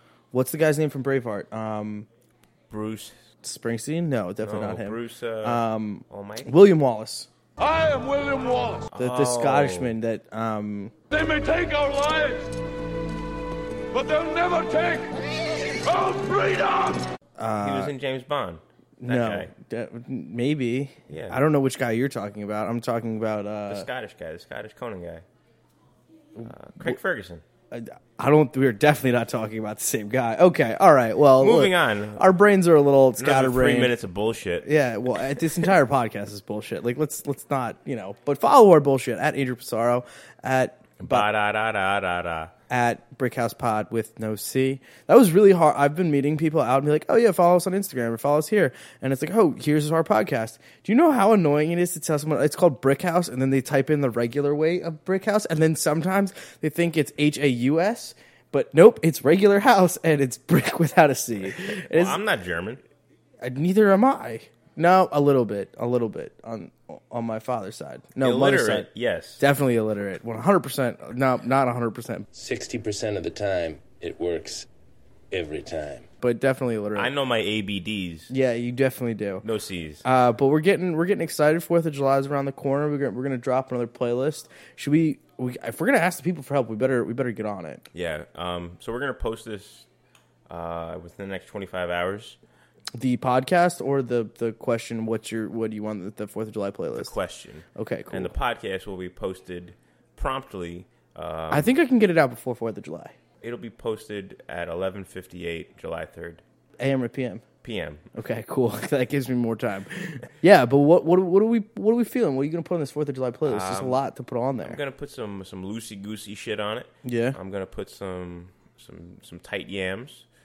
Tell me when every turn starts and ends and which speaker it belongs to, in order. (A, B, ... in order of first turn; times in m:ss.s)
0:00.3-0:02.1 A
0:02.7-0:03.2 B
0:03.4-0:07.3 A
0:04.4-0:06.5 B
0:07.6-0:08.9 C
0:08.9-0:09.9 B
0:09.0-0:10.9 A
0:11.1-0:12.5 C
0:13.9-0:15.1 C
0:15.8-0:17.0 C
0:17.4-0:17.9 A
0:17.6-0:19.5 B
0:19.0-0:23.9 A
0:21.1-0:21.4 B
0:23.7-0:25.2 B
0:26.3-0:27.0 A
0:26.4-0:27.4 B
0:27.7-0:34.0 A
0:31.4-0:32.3 B
0:33.2-0:34.7 B
0:34.6-0:41.3 A
0:41.0-0:42.5 B
0:42.7-1:02.2 A
1:01.4-1:02.8 B
1:03.4-1:08.9 A
1:08.2-1:09.4 B
1:09.4-1:12.3 A
1:12.3-1:14.6 D
1:15.3-1:16.1 D
1:16.1-1:17.1 A
1:16.9-1:18.3 B
1:18.3-1:19.4 A
1:19.4-1:20.0 B
1:20.0-1:27.8 A
1:27.9-1:29.9 B
1:30.5-1:32.4 B
1:33.0-1:37.1 A
1:37.0-1:41.7 B
1:37.7-1:38.3 A
1:41.5-1:43.1 A
1:43.4-1:46.4 B
1:46.8-1:47.4 A
1:47.6-1:48.1 B
1:48.1-1:54.8 A
1:53.4-1:54.0 B
1:54.6-2:00.2 B
1:57.0-1:57.4 A